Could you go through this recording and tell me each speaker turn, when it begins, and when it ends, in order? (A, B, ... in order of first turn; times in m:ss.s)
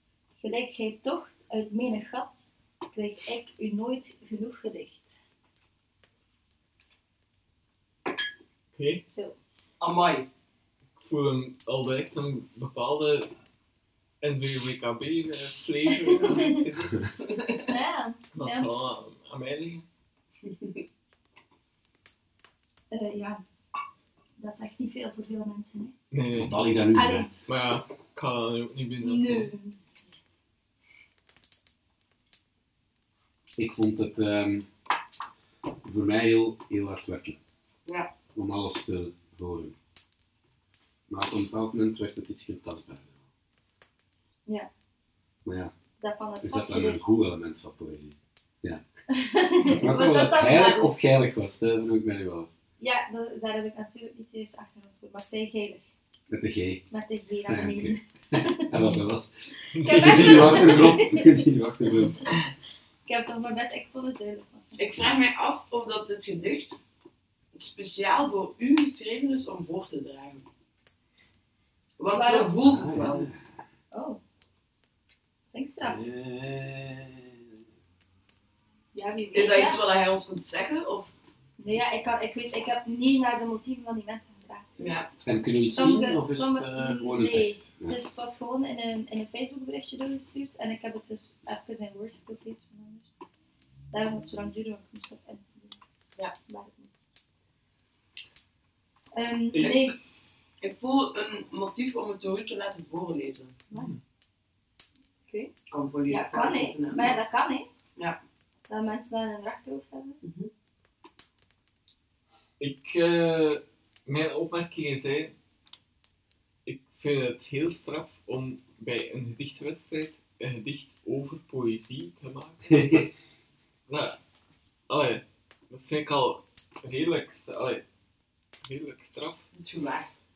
0:00.4-0:05.1 A
0:08.8-0:09.0 B
0:09.1-0:09.4 A
0:09.8-0:10.3 C
0:11.0-0:13.3 B
0:14.2-0:17.0 B
0:15.9-0:16.5 A
0:17.2-0:17.7 C
0:17.7-0:18.7 A
0:18.3-0:19.8 B
0:20.5-0:20.8 C
0:22.9-0:23.4 A
0:24.4-0:25.9 A
0:26.1-0:26.6 B
0:26.3-0:27.4 D
0:26.9-0:27.3 A
0:27.5-0:29.5 B
0:29.0-0:29.8 A
0:33.6-0:34.7 D
0:35.8-0:37.4 D
0:37.9-0:38.1 C
0:38.4-0:39.8 D
0:41.1-0:43.2 D
0:45.4-0:45.7 D
0:46.0-0:47.1 A
0:46.4-0:48.8 D
0:49.1-0:50.9 A
0:49.7-0:52.5 D
0:52.8-0:55.9 A
0:56.3-0:56.8 D
0:56.9-0:58.6 A
0:57.5-0:59.3 D
0:59.7-1:00.7 B
0:59.8-1:01.4 A
0:59.9-1:02.2 D
1:03.1-1:04.8 A
1:04.8-1:06.8 C
1:07.5-1:10.5 C
1:12.0-1:13.3 C
1:12.1-1:12.6 A
1:12.6-1:13.4 D
1:13.9-1:14.2 A
1:15.5-1:16.0 A
1:15.8-1:17.4 D
1:18.9-1:19.8 A
1:19.3-1:21.1 C
1:21.6-1:25.0 A
1:24.8-1:25.1 C
1:25.2-1:28.0 D
1:25.7-1:33.1 A
1:33.9-1:35.8 A
1:36.4-1:37.0 A
1:39.1-1:40.0 A
1:39.5-1:39.9 C
1:40.6-1:43.6 C
1:43.7-1:44.0 B
1:45.3-1:45.5 A
1:45.7-1:47.2 C
1:46.1-1:47.7 A
1:48.7-1:50.2 A
1:50.2-1:50.5 C
1:52.6-1:55.3 B
1:56.6-2:02.8 B
2:02.7-2:03.1 D
2:03.9-2:04.2 B
2:04.9-2:07.8 B
2:08.6-2:09.4 B
2:09.5-2:10.2 C